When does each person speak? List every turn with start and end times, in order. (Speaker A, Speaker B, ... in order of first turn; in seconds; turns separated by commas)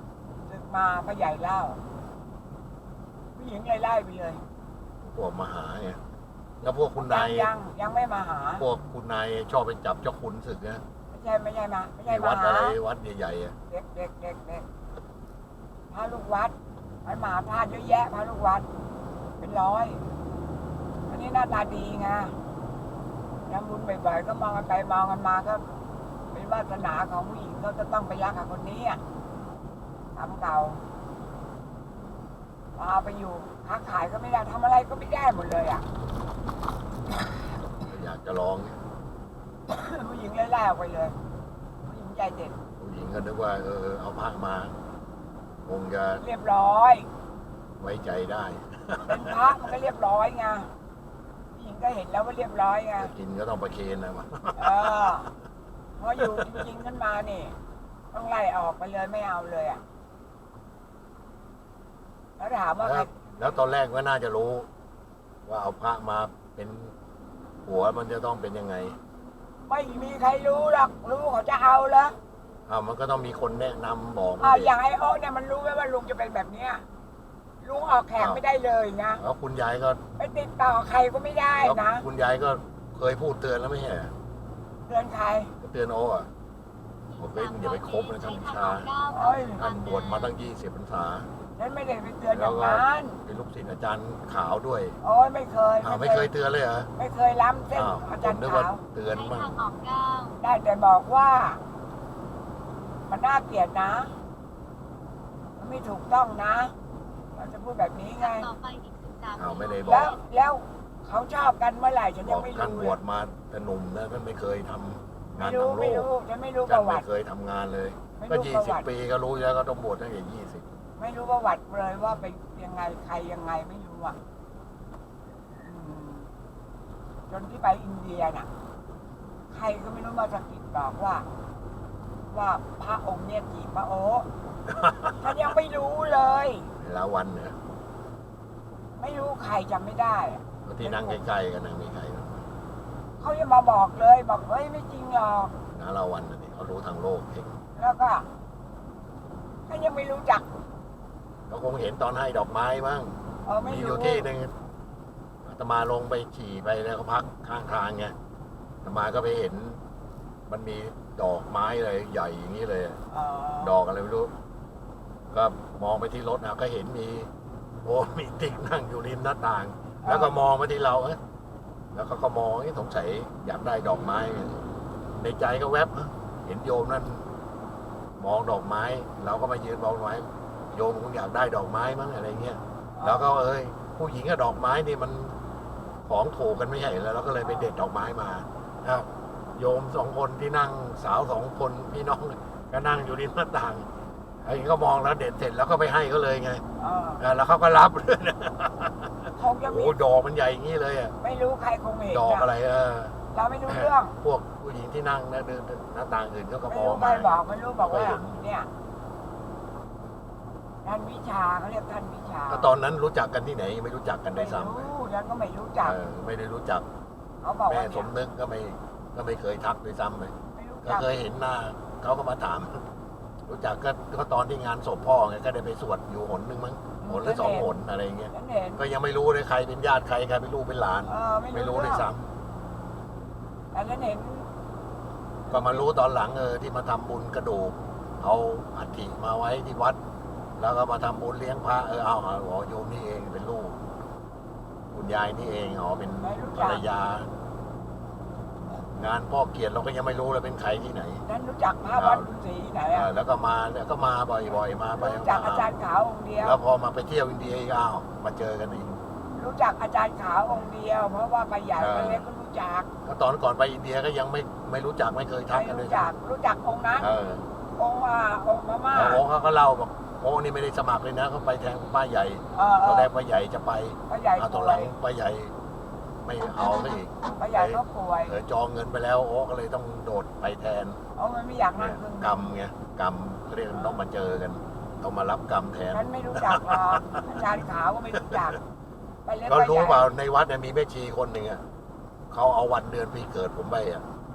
Speaker A: 0.5-1.8, Speaker A: 3.4-4.4, Speaker B: 5.0-6.0, Speaker B: 6.6-7.5, Speaker A: 7.0-8.6, Speaker B: 8.6-10.8, Speaker A: 11.1-12.8, Speaker B: 12.1-13.5, Speaker A: 13.7-14.7, Speaker A: 15.9-18.7, Speaker A: 19.4-20.0, Speaker A: 21.1-22.3, Speaker A: 23.5-25.6, Speaker A: 26.3-29.0, Speaker A: 30.1-30.8, Speaker A: 32.8-35.9, Speaker B: 37.8-38.8, Speaker A: 39.7-41.2, Speaker A: 41.8-42.6, Speaker B: 42.8-44.7, Speaker B: 45.6-46.2, Speaker A: 46.2-47.1, Speaker B: 47.8-49.4, Speaker A: 49.0-50.7, Speaker A: 51.5-53.1, Speaker B: 53.0-55.1, Speaker A: 54.5-55.3, Speaker A: 56.0-57.5, Speaker B: 56.2-56.7, Speaker A: 58.1-59.8, Speaker A: 62.4-63.6, Speaker B: 62.8-64.7, Speaker B: 65.5-66.9, Speaker B: 67.6-69.0, Speaker A: 69.7-72.1, Speaker B: 72.7-74.7, Speaker A: 74.4-76.8, Speaker A: 77.6-79.2, Speaker B: 78.2-78.4, Speaker B: 79.2-80.0, Speaker A: 80.2-82.0, Speaker B: 81.6-84.1, Speaker A: 84.9-85.5, Speaker B: 85.6-86.3, Speaker C: 87.1-90.3, Speaker B: 87.2-88.9, Speaker A: 89.1-89.6, Speaker B: 89.6-91.3, Speaker A: 91.6-93.2, Speaker B: 92.3-95.0, Speaker A: 95.0-96.3, Speaker B: 95.8-96.9, Speaker A: 97.0-98.8, Speaker B: 97.7-99.6, Speaker C: 99.1-100.4, Speaker A: 100.4-101.6, Speaker A: 103.1-104.1, Speaker A: 105.6-106.7, Speaker A: 107.3-108.5, Speaker C: 108.2-110.2, Speaker B: 109.4-110.1, Speaker A: 109.8-113.0, Speaker B: 112.2-116.1, Speaker A: 115.4-117.0, Speaker B: 116.7-120.6, Speaker A: 118.2-118.9, Speaker A: 121.0-124.2, Speaker A: 125.6-126.3, Speaker A: 127.3-128.5, Speaker A: 129.5-131.3, Speaker A: 132.3-134.3, Speaker A: 135.1-136.7, Speaker B: 136.8-137.6, Speaker A: 139.0-141.2, Speaker B: 140.7-142.4, Speaker A: 143.2-145.5, Speaker B: 145.7-147.6, Speaker A: 147.8-148.3, Speaker A: 149.7-150.5, Speaker B: 151.5-154.5, Speaker A: 153.4-154.3, Speaker B: 155.4-158.2, Speaker B: 158.8-159.8, Speaker B: 160.5-163.0, Speaker A: 163.1-163.8, Speaker B: 163.6-164.3, Speaker B: 165.3-167.3, Speaker B: 167.8-171.2, Speaker A: 170.0-170.4, Speaker B: 171.9-174.6, Speaker B: 175.2-177.3, Speaker B: 178.2-185.3, Speaker A: 183.0-183.3, Speaker B: 186.1-193.9, Speaker B: 194.4-196.6, Speaker A: 196.8-197.2, Speaker B: 197.2-201.2, Speaker A: 199.4-200.0, Speaker A: 201.2-202.5, Speaker B: 202.1-203.2, Speaker A: 203.3-204.2, Speaker B: 203.7-208.4, Speaker A: 206.7-208.7, Speaker A: 210.8-212.7, Speaker B: 212.5-214.9, Speaker A: 214.3-216.0, Speaker B: 215.8-216.9, Speaker A: 217.4-218.1, Speaker B: 217.7-222.8, Speaker A: 220.6-221.1, Speaker B: 223.5-232.3, Speaker A: 227.0-227.8, Speaker A: 228.3-228.8, Speaker A: 231.1-232.1, Speaker A: 233.7-234.5, Speaker B: 235.5-240.0, Speaker B: 240.6-243.8, Speaker B: 244.9-247.3, Speaker A: 246.2-246.8, Speaker B: 248.9-251.2, Speaker A: 251.3-253.1, Speaker B: 251.9-252.3, Speaker B: 252.9-255.7, Speaker A: 254.9-256.6, Speaker B: 256.4-259.0, Speaker A: 259.4-262.9, Speaker B: 261.8-262.3, Speaker B: 263.0-266.1, Speaker A: 265.5-267.1, Speaker B: 267.0-267.5, Speaker A: 267.8-269.2, Speaker B: 268.9-275.5, Speaker A: 272.5-273.1, Speaker A: 274.1-274.9, Speaker B: 276.2-281.0, Speaker A: 276.6-278.4, Speaker A: 281.1-282.5, Speaker B: 281.8-287.5, Speaker A: 283.7-284.0, Speaker A: 285.9-288.6, Speaker B: 288.1-288.6, Speaker A: 289.2-290.1, Speaker B: 289.5-291.6, Speaker B: 292.3-294.0